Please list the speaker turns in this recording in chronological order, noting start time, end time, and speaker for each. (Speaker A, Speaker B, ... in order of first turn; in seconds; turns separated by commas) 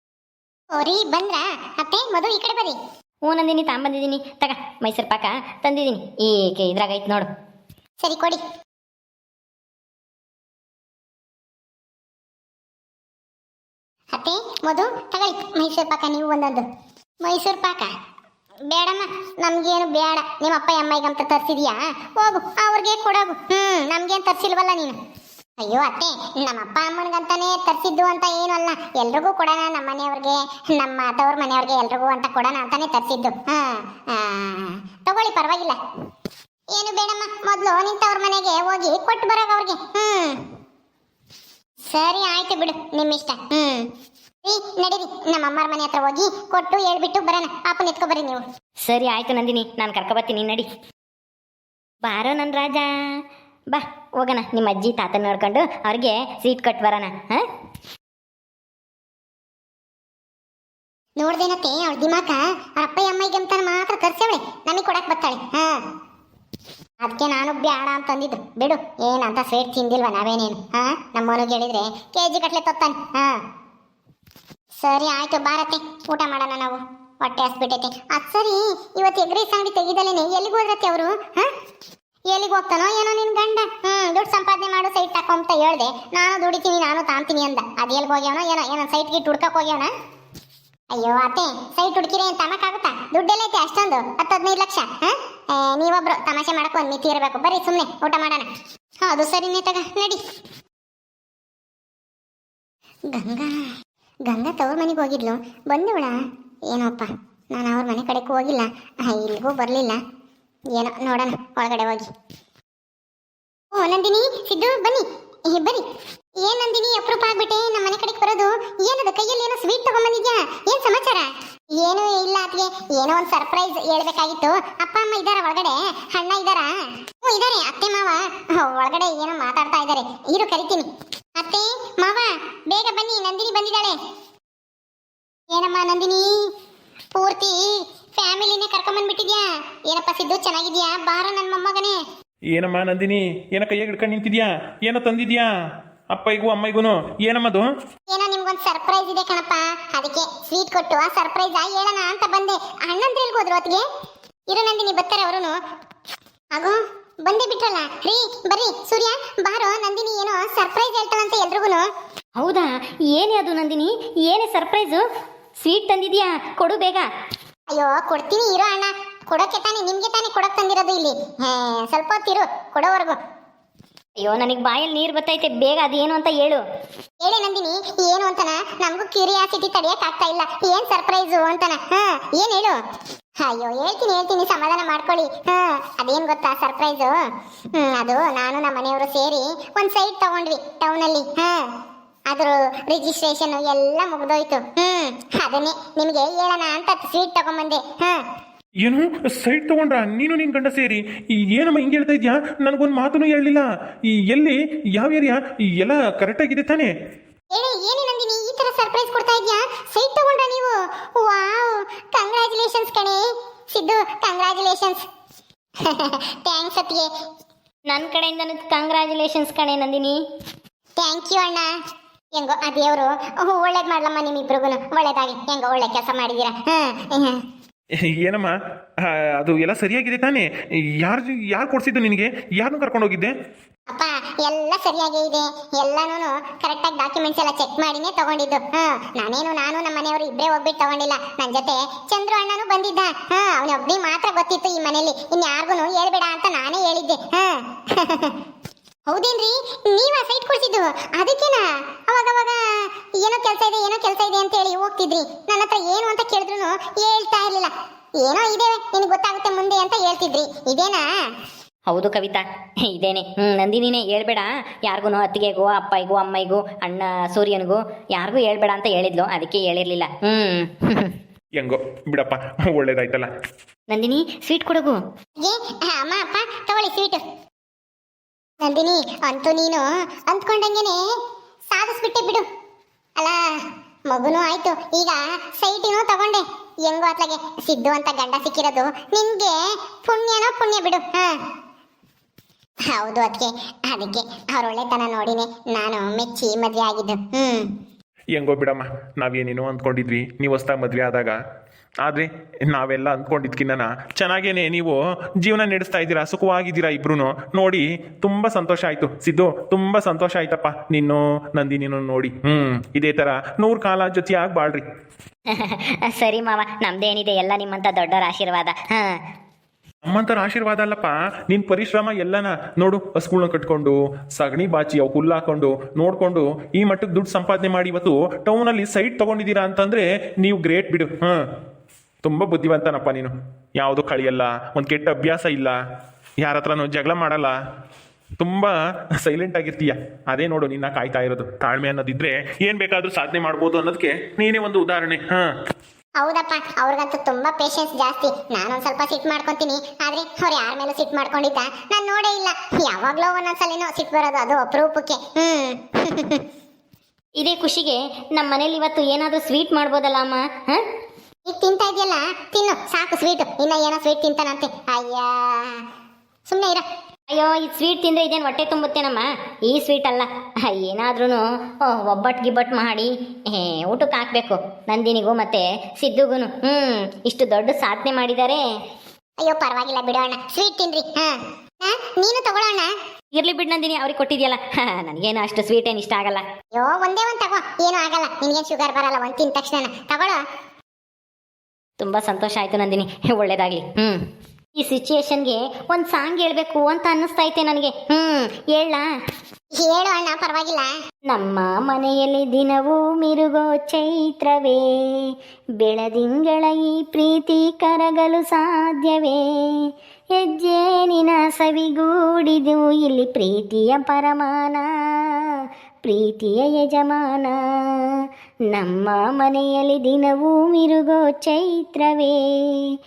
Speaker A: 0.7-2.8, Speaker B: 3.2-7.3, Speaker A: 8.0-8.4, Speaker A: 14.1-16.6, Speaker A: 17.2-17.9, Speaker A: 18.7-25.0, Speaker A: 25.6-35.8, Speaker A: 36.7-40.4, Speaker A: 41.9-43.9, Speaker A: 44.4-48.4, Speaker B: 48.8-50.7, Speaker B: 52.0-52.9, Speaker B: 53.7-57.4, Speaker A: 61.2-65.8, Speaker A: 67.0-73.4, Speaker A: 74.8-81.5, Speaker A: 82.3-89.9, Speaker A: 90.9-98.5, Speaker A: 99.0-100.2, Speaker A: 103.1-103.7, Speaker A: 104.2-106.2, Speaker A: 106.7-110.0, Speaker A: 110.7-112.1, Speaker A: 113.7-115.8, Speaker A: 116.4-134.0, Speaker A: 135.5-136.5, Speaker A: 137.2-142.0, Speaker C: 142.5-145.5, Speaker C: 146.1-147.7, Speaker A: 148.1-153.8, Speaker A: 154.5-155.6, Speaker A: 156.5-161.9, Speaker B: 162.4-165.0, Speaker B: 165.6-167.1, Speaker A: 167.7-173.2, Speaker B: 174.2-176.6, Speaker A: 177.2-182.8, Speaker A: 183.4-187.2, Speaker A: 187.8-191.7, Speaker A: 192.3-198.2, Speaker C: 198.8-206.9, Speaker A: 207.5-215.0, Speaker A: 215.8-217.1, Speaker B: 217.9-220.2, Speaker A: 221.0-221.7, Speaker A: 222.3-227.4, Speaker C: 228.2-233.3, Speaker A: 233.9-248.3, Speaker A: 249.1-261.1, Speaker B: 261.9-271.1, Speaker C: 271.6-273.3, Speaker B: 273.9-275.0, Speaker A: 275.4-277.2, Speaker A: 278.6-281.1, Speaker A: 281.7-282.5, Speaker A: 283.2-291.4, Speaker A: 292.9-297.7, Speaker C: 298.4-301.4, Speaker C: 302.0-314.8, Speaker B: 315.5-319.1, Speaker C: 320.0-331.4, Speaker C: 332.2-335.8, Speaker C: 336.4-337.5, Speaker C: 338.4-345.5, Speaker A: 346.2-356.4, Speaker B: 357.4-360.8, Speaker A: 361.5-365.8, Speaker A: 366.5-366.9, Speaker B: 367.3-378.6, Speaker A: 379.4-382.9, Speaker B: 383.3-386.4, Speaker A: 386.7-390.4, Speaker B: 392.0-394.2, Speaker B: 394.8-399.0, Speaker A: 399.8-400.9, Speaker B: 401.3-409.4, Speaker B: 410.4-415.5, Speaker B: 416.0-417.6, Speaker B: 418.7-422.9